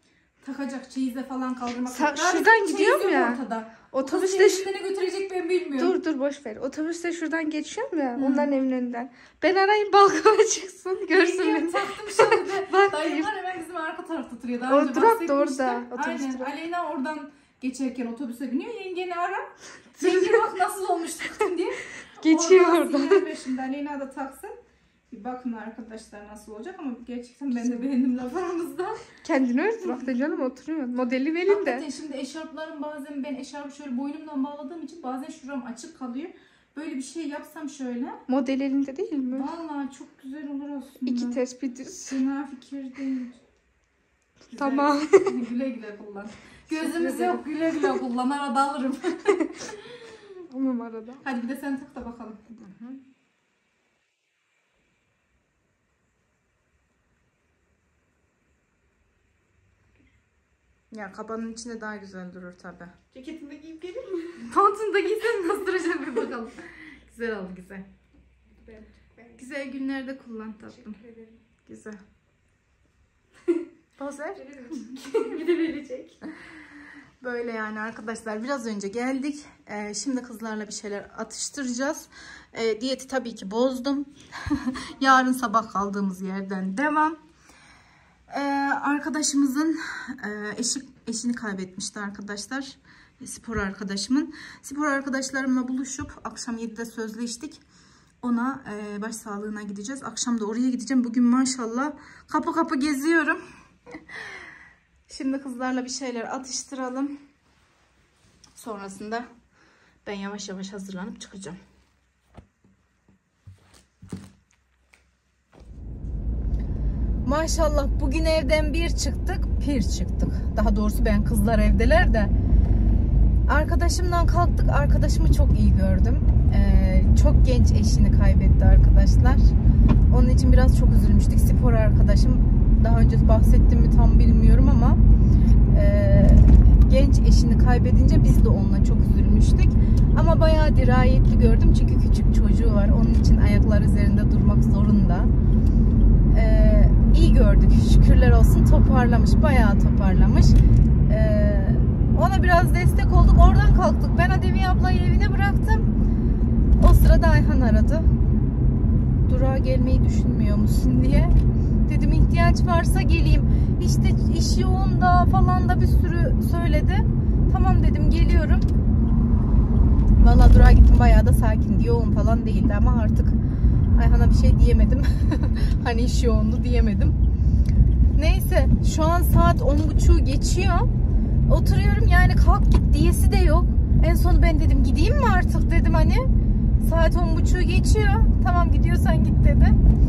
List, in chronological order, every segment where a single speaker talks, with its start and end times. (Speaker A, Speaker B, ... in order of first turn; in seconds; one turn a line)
Speaker A: 0.4-6.0
Speaker B: 1.9-3.4
Speaker B: 3.9-4.7
Speaker B: 5.8-13.3
Speaker A: 8.2-8.5
Speaker A: 11.1-24.6
Speaker B: 14.7-16.5
Speaker B: 20.0-20.4
Speaker B: 22.2-23.2
Speaker A: 25.1-29.1
Speaker B: 29.2-31.9
Speaker A: 29.8-30.5
Speaker A: 31.4-38.2
Speaker B: 38.3-39.5
Speaker A: 39.3-43.4
Speaker B: 41.0-42.2
Speaker A: 44.5-50.2
Speaker B: 44.6-45.3
Speaker B: 46.8-47.4
Speaker B: 50.5-51.2
Speaker A: 51.2-53.0
Speaker A: 60.9-63.0
Speaker B: 63.1-64.0
Speaker C: 63.9-64.3
Speaker A: 64.4-67.9
Speaker C: 68.7-69.2
Speaker A: 69.3-71.0
Speaker A: 71.6-72.0
Speaker A: 74.0-75.0
Speaker C: 74.8-76.1
Speaker A: 77.2-87.2
Speaker A: 88.3-97.6
Speaker A: 98.2-103.4
Speaker A: 104.1-104.4
Speaker A: 105.1-107.1
Speaker A: 108.6-109.3
Speaker A: 110.0-111.6
Speaker A: 117.2-122.3
Speaker A: 123.5-129.5
Speaker A: 130.1-135.0
Speaker A: 135.7-145.3
Speaker A: 146.3-155.9
Speaker A: 156.8-158.1
Speaker A: 159.2-168.7
Speaker A: 170.2-173.4
Speaker A: 173.9-177.2
Speaker A: 178.2-180.9
Speaker A: 181.5-186.3
Speaker A: 186.8-189.8